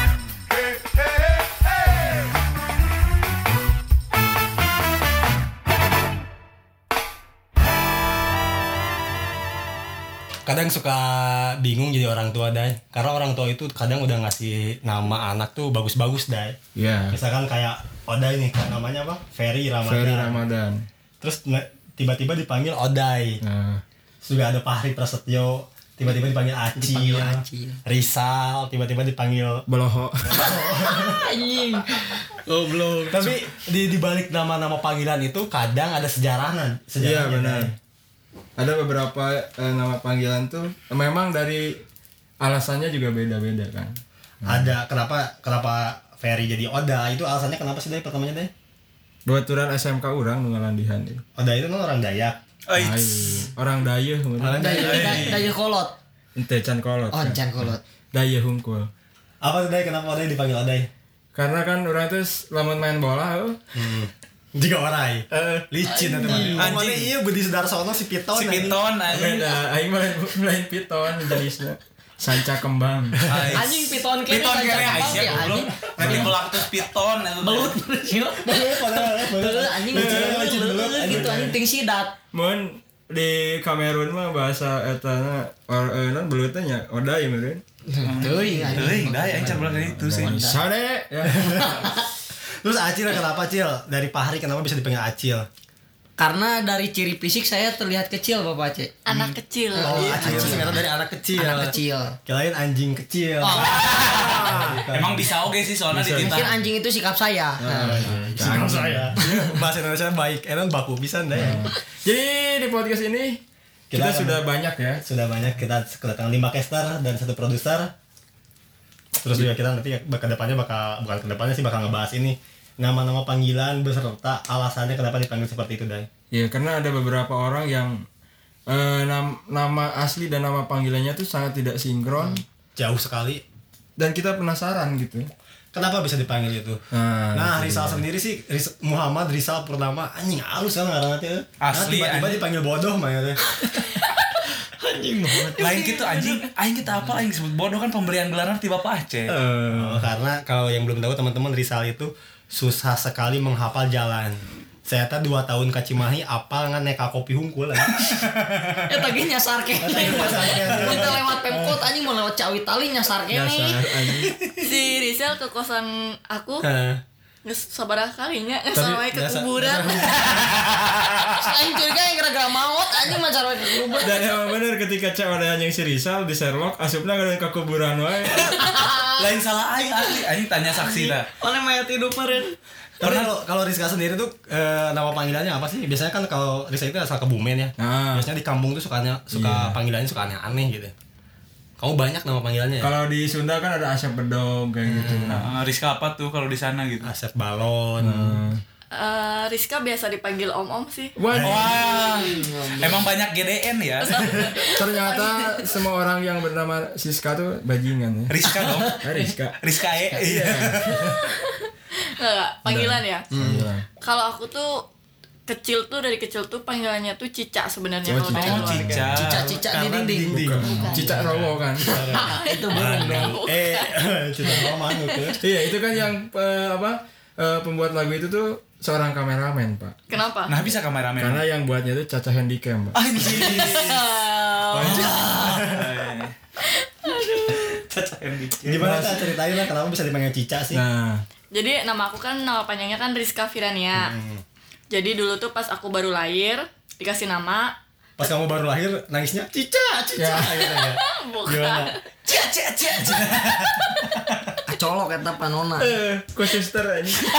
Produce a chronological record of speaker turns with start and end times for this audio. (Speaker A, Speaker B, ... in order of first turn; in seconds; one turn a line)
Speaker A: 10.5-16.6
Speaker B: 16.8-17.2
Speaker A: 17.1-20.4
Speaker B: 19.9-20.9
Speaker A: 21.2-23.4
Speaker B: 23.4-23.8
Speaker A: 24.2-29.6
Speaker C: 26.8-27.8
Speaker B: 29.7-30.5
Speaker A: 30.2-31.3
Speaker C: 30.5-33.1
Speaker B: 32.8-33.3
Speaker A: 33.0-37.7
Speaker B: 37.0-37.8
Speaker B: 38.6-41.8
Speaker B: 42.4-44.7
Speaker A: 44.5-48.5
Speaker B: 49.3-51.2
Speaker A: 51.4-52.4
Speaker D: 52.7-53.5
Speaker B: 52.8-55.4
Speaker A: 54.4-55.4
Speaker C: 54.5-56.0
Speaker D: 54.8-55.5
Speaker B: 56.4-58.9
Speaker C: 57.1-57.8
Speaker A: 59.4-60.9
Speaker B: 61.4-63.6
Speaker A: 63.7-68.8
Speaker C: 65.8-66.7
Speaker B: 66.3-66.7
Speaker D: 66.6-67.1
Speaker D: 68.3-69.5
Speaker B: 69.1-73.5
Speaker A: 73.2-73.6
Speaker D: 73.3-77.8
Speaker C: 73.5-76.7
Speaker B: 75.0-76.4
Speaker C: 77.4-82.2
Speaker A: 78.4-81.5
Speaker B: 79.9-81.5
Speaker B: 82.3-87.6
Speaker C: 87.9-90.6
Speaker D: 88.0-90.4
Speaker B: 88.7-91.9
Speaker A: 91.2-91.8
Speaker C: 91.5-92.1
Speaker A: 92.6-95.5
Speaker C: 96.2-98.9
Speaker E: 99.1-100.5
Speaker D: 99.1-99.4
Speaker C: 99.7-100.8
Speaker A: 99.8-105.3
Speaker B: 100.2-100.6
Speaker C: 101.3-102.2
Speaker C: 103.4-104.3
Speaker D: 103.7-106.5
Speaker B: 104.2-104.8
Speaker B: 105.9-106.6
Speaker C: 106.2-108.2
Speaker B: 107.6-109.6
Speaker A: 107.7-111.7
Speaker C: 109.2-109.5
Speaker B: 111.3-115.0
Speaker A: 113.9-114.4
Speaker A: 115.0-117.9
Speaker A: 119.2-126.1
Speaker B: 126.3-128.1
Speaker B: 128.7-132.4
Speaker A: 132.8-133.4
Speaker B: 134.0-135.3
Speaker A: 135.7-136.8
Speaker B: 136.9-138.0
Speaker A: 137.3-143.4
Speaker D: 141.6-142.4
Speaker C: 143.5-146.5
Speaker D: 145.6-149.4
Speaker B: 149.3-150.1
Speaker A: 149.7-158.8
Speaker C: 158.9-163.9
Speaker A: 159.8-161.9
Speaker B: 163.3-164.4
Speaker A: 164.4-164.7
Speaker E: 164.6-166.7
Speaker A: 166.6-167.0
Speaker E: 167.4-170.4
Speaker A: 168.7-170.8
Speaker D: 170.3-170.9
Speaker C: 171.4-174.3
Speaker B: 174.0-178.6
Speaker C: 178.4-179.3
Speaker D: 178.4-181.3
Speaker C: 180.8-182.6
Speaker A: 183.0-190.9
Speaker D: 183.0-183.3
Speaker B: 187.8-188.3
Speaker B: 189.3-189.8
Speaker A: 191.8-192.9
Speaker B: 192.8-195.5
Speaker A: 194.9-195.4
Speaker D: 195.3-197.1
Speaker A: 197.0-198.4
Speaker B: 198.0-198.6
Speaker E: 198.9-201.2
Speaker B: 201.2-201.8
Speaker A: 201.3-201.7
Speaker D: 201.4-204.5
Speaker C: 202.0-203.1
Speaker E: 204.0-205.8
Speaker A: 204.3-204.5
Speaker B: 204.7-209.6
Speaker D: 208.3-209.0
Speaker C: 208.8-209.2
Speaker D: 209.6-211.1
Speaker B: 210.2-211.2
Speaker E: 211.1-213.3
Speaker B: 212.7-213.9
Speaker A: 213.3-213.7
Speaker E: 214.0-214.8
Speaker E: 215.5-219.1
Speaker B: 218.1-219.4
Speaker D: 218.3-219.5
Speaker C: 219.2-221.3
Speaker A: 219.4-225.4
Speaker B: 220.3-222.0
Speaker C: 221.8-223.4
Speaker E: 222.5-223.9
Speaker E: 224.5-225.4
Speaker B: 225.4-229.9
Speaker E: 230.1-230.6
Speaker D: 230.5-231.4
Speaker B: 231.2-233.0
Speaker D: 232.9-234.2
Speaker E: 233.3-235.6
Speaker B: 234.7-235.3
Speaker D: 234.8-236.3
Speaker A: 235.3-235.9
Speaker E: 236.7-237.8
Speaker A: 237.8-240.8
Speaker D: 238.2-239.0
Speaker B: 238.8-239.3
Speaker B: 240.7-241.2
Speaker E: 241.5-244.1
Speaker A: 243.9-244.4
Speaker E: 244.9-247.8
Speaker A: 248.2-251.9
Speaker B: 250.2-250.7
Speaker E: 250.6-252.0
Speaker D: 252.3-254.2
Speaker A: 253.2-253.9
Speaker C: 254.7-256.0
Speaker B: 255.8-257.2